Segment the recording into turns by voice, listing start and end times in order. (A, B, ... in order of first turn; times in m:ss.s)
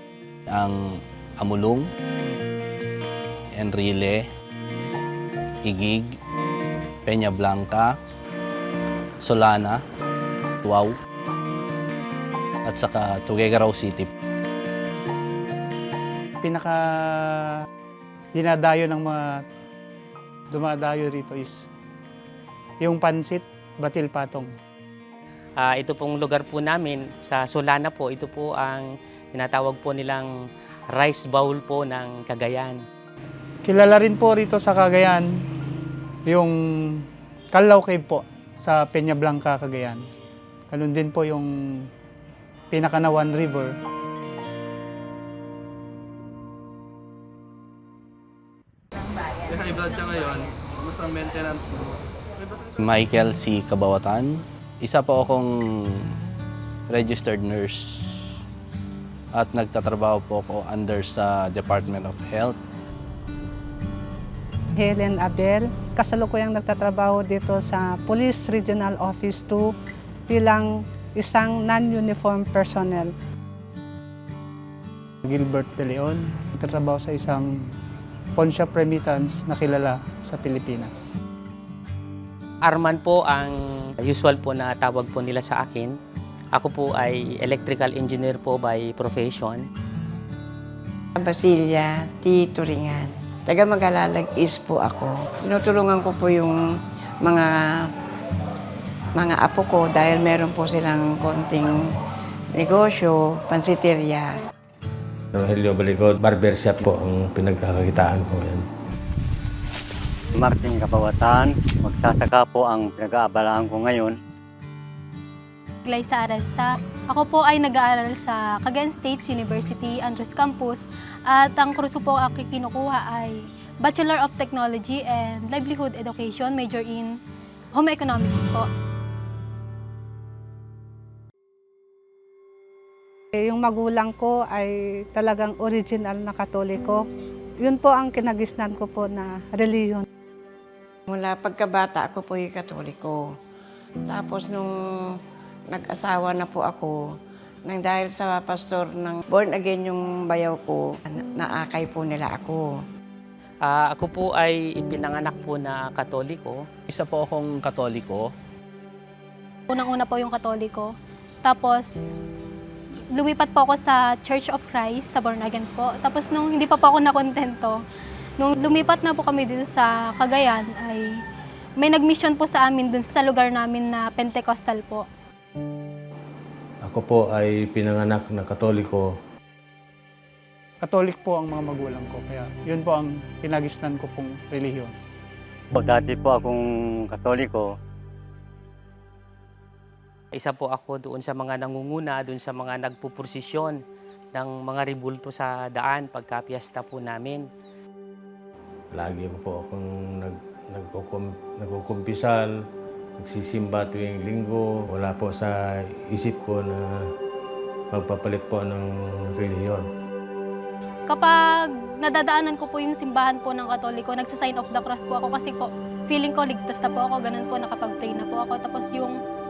0:00.5-0:01.9 A
0:03.5-0:04.3 A
0:05.6-0:06.2 A
0:07.0-0:08.0 A
0:09.2-0:09.8 A
0:10.6-0:11.0 A
0:12.7-0:14.1 A
0:16.4-0:17.6 B
0:18.4-0:19.4 B
0:20.5-0:21.7 B
0:22.8-0:24.5 B
0:25.6-0:30.3 C
0:30.9-0:32.8 C
0:33.7-0:35.4 B
0:36.3-0:40.0 B
0:40.7-0:41.9 B
0:42.7-0:43.7 B
0:49.5-0:52.8 D
0:52.8-0:56.1 A
0:56.9-0:58.4 A
0:59.3-1:02.6 A
1:04.8-1:09.7 E
1:10.3-1:13.1 E
1:15.2-1:17.7 B
1:18.4-1:21.2 B
1:22.6-1:26.0 C
1:26.5-1:29.6 C
1:31.2-1:36.6 F
1:37.2-1:37.9 F
1:39.2-1:41.8 F
1:42.6-1:44.4 F
1:45.3-1:48.7 G
1:50.4-1:54.2 H
1:55.8-2:07.2 I
2:07.7-2:08.7 I
2:13.4-2:17.0 E
2:17.6-2:20.1 E
2:21.1-2:23.3 F
2:24.1-2:25.2 F
2:25.7-2:27.0 F
2:27.6-2:32.8 F
2:33.6-2:36.7 C
2:36.9-2:38.3 A
2:39.7-2:41.9 I
2:43.1-2:47.8 I
2:48.4-2:51.2 I
2:51.8-2:55.1 I
2:56.8-2:59.1 G
3:00.8-3:05.0 B
3:05.7-3:07.7 H
3:10.4-3:13.8 C
3:14.3-3:17.5 C
3:18.9-3:22.5 G
3:23.2-3:27.1 G
3:27.9-3:29.9 G
3:31.1-3:39.2 I